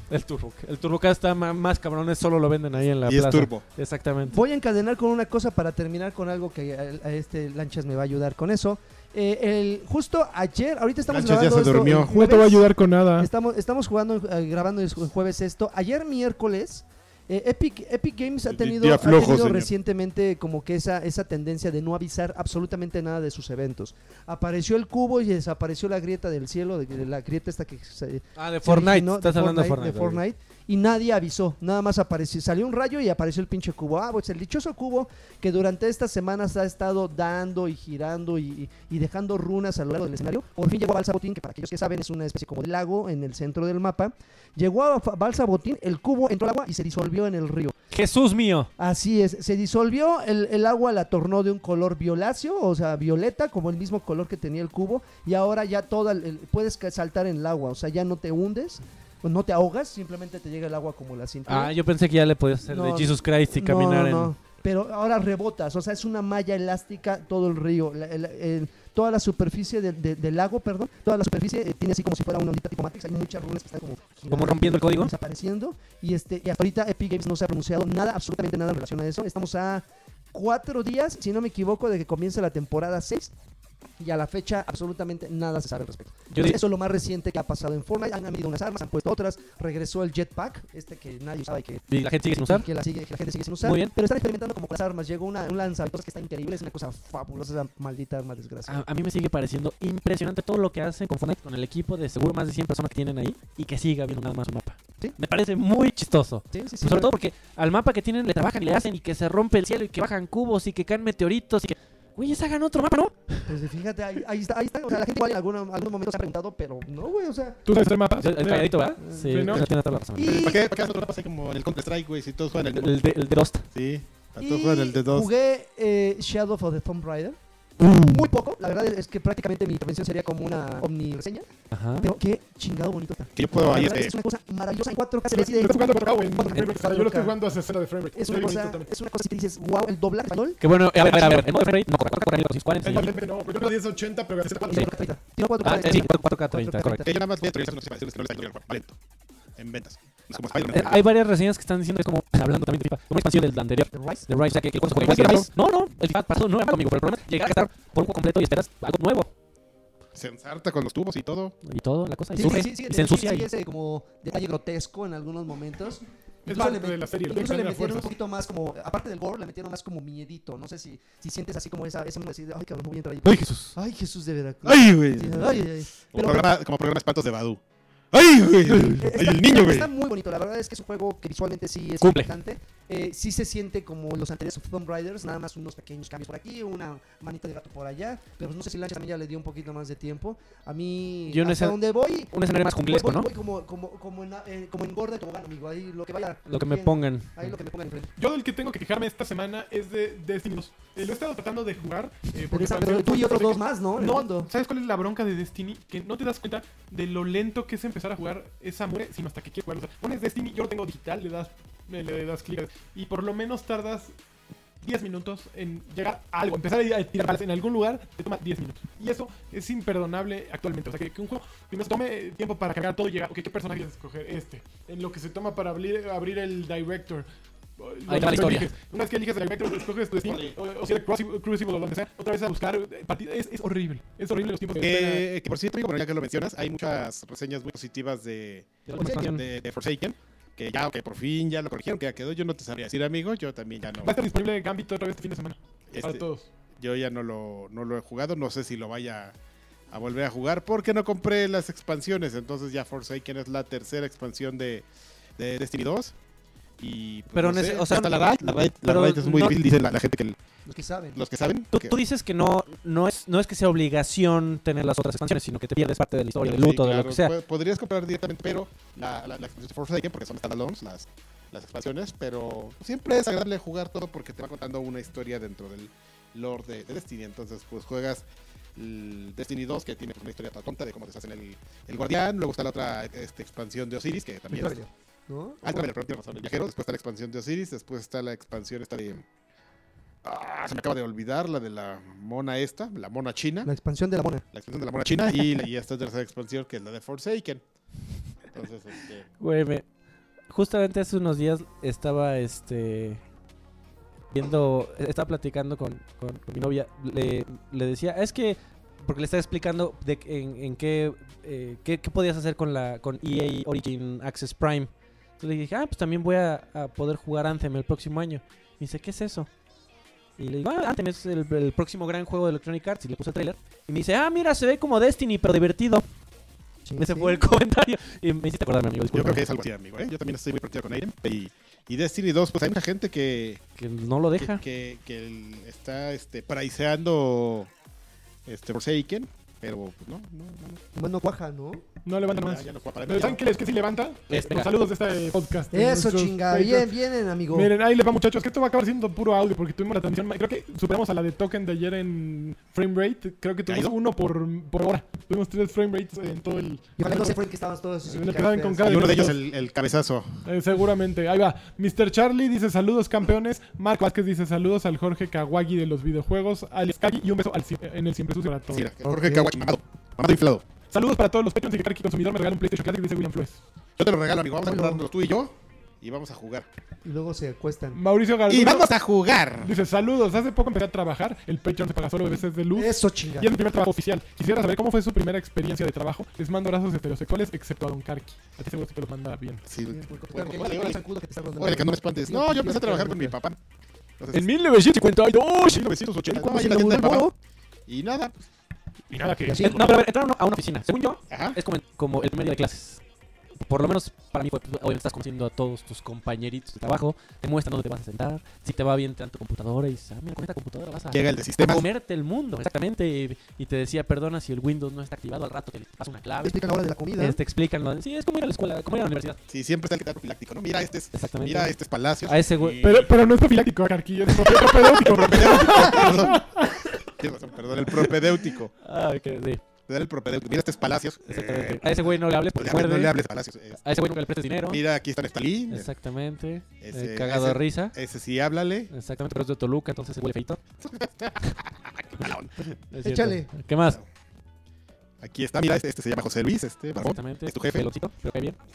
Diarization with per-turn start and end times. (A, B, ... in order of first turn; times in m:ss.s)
0:00.1-0:04.4 A
0:02.9-0:03.6 B
0:04.3-0:12.7 C
0:11.1-0:12.2 B
0:11.9-0:13.3 D
0:13.2-0:47.8 C
0:18.5-0:19.7 B
0:28.4-0:30.2 A
0:47.9-0:48.7 A
0:48.8-1:01.7 C
1:01.5-1:04.3 A
1:02.7-1:23.3 C
1:14.3-1:15.1 A
1:24.0-1:31.9 C
1:26.3-1:26.6 A
1:31.9-1:32.7 A
1:32.4-1:38.8 C
1:33.6-1:33.9 A
1:38.7-1:53.6 A
1:46.5-1:47.1 C
1:53.5-1:57.6 C
1:57.6-1:59.7 D
1:58.2-2:00.5 A
1:59.0-1:59.6 C
2:00.2-2:00.6 C
2:00.2-2:03.0 B
2:02.6-2:03.7 A
2:03.7-2:05.3 B
2:04.4-2:07.4 C
2:07.8-2:08.3 A
2:07.9-2:11.5 C
2:11.7-2:12.1 A
2:12.0-2:17.4 C
2:13.4-2:14.2 B
2:15.3-2:18.9 D
2:18.1-2:20.6 C
2:20.6-2:23.1 A
2:21.1-2:21.4 D
2:22.8-2:24.9 D
2:24.7-2:27.1 C
2:25.6-2:27.0 A
2:27.0-2:29.0 B
2:29.6-2:31.0 B
2:30.7-2:39.3 A
2:33.9-2:34.3 C
2:34.9-2:35.5 B
2:40.1-2:41.6 B
2:41.6-2:43.5 A
2:42.4-2:56.4 C
2:46.5-2:48.2 D
2:53.2-2:53.8 A
2:54.6-2:57.6 B
2:58.1-2:59.9 B
2:58.7-2:59.0 A
2:58.9-3:18.1 C
3:02.0-3:02.3 A
3:11.3-3:13.3 A
3:16.5-3:17.5 A
3:18.2-3:34.2 D
3:22.5-3:24.5 C
3:34.8-3:47.3 D
3:47.8-3:55.2 D
3:48.1-3:48.7 A
3:50.2-3:50.6 B
3:54.8-4:04.1 B
3:58.9-3:59.4 A
3:59.0-3:59.3 C
4:04.0-4:06.5 D
4:05.9-4:06.2 B
4:06.8-4:09.4 B
4:09.9-4:14.9 B
4:15.4-4:16.2 B
4:16.8-4:20.4 B
4:17.3-4:19.6 A
4:20.7-4:21.2 C
4:21.2-4:22.0 B
4:21.7-4:27.3 A
4:26.4-4:44.8 B
4:44.5-4:45.9 C
4:45.6-4:49.2 B
4:50.2-4:53.7 B
4:53.6-4:54.4 C
4:54.5-4:57.6 B
4:58.5-4:59.3 B
4:59.4-4:59.9 A
5:00.5-5:03.2 A
5:04.3-5:19.5 A
5:20.4-5:26.0 A
5:26.9-5:27.4 C
5:27.0-5:29.4 A
5:29.1-5:33.6 B
5:33.8-5:34.6 A
5:34.4-5:37.7 B
5:38.5-5:40.8 B
5:41.0-5:41.9 C
5:42.0-5:46.9 D
5:42.2-5:43.4 B
5:44.3-5:44.7 A
5:45.7-5:47.7 C
5:47.5-5:57.4 D
5:53.7-5:53.9 B
5:57.0-5:59.2 C
5:58.0-5:59.4 D
5:58.8-6:00.4 B
6:00.4-6:08.9 D
6:08.7-6:10.6 B
6:09.1-6:09.5 A
6:10.9-6:13.6 D
6:14.0-6:16.7 B
6:14.6-6:15.0 C
6:17.0-6:18.0 C
6:17.9-6:19.0 D
6:18.5-6:19.7 B
6:19.6-6:29.6 D
6:22.8-6:23.5 C
6:29.7-6:31.0 B
6:29.9-6:33.4 C
6:31.6-6:33.6 B
6:34.2-6:34.5 B
6:34.3-6:36.8 D
6:35.6-6:37.3 B
6:36.4-6:37.3 C
6:37.9-6:38.4 B
6:39.1-6:39.8 D
6:39.4-6:39.9 C
6:39.6-6:43.0 A
6:41.3-6:41.6 B
6:43.6-6:56.6 A
6:51.1-6:51.9 B
6:56.4-6:57.4 C
6:57.2-6:59.4 A
6:59.5-7:03.1 B
7:01.1-7:02.9 A
7:02.8-7:06.8 D
7:05.0-7:08.7 B
7:08.8-7:09.6 A
7:09.9-7:13.8 B
7:11.3-7:13.2 A
7:13.8-7:14.8 A
7:14.7-7:15.9 B
7:15.7-7:18.0 A
7:16.8-7:18.9 B
7:18.9-7:20.6 A
7:20.8-7:22.7 B
7:22.9-7:24.0 A
7:23.0-7:23.5 C
7:25.2-7:27.9 B
7:27.0-7:28.6 A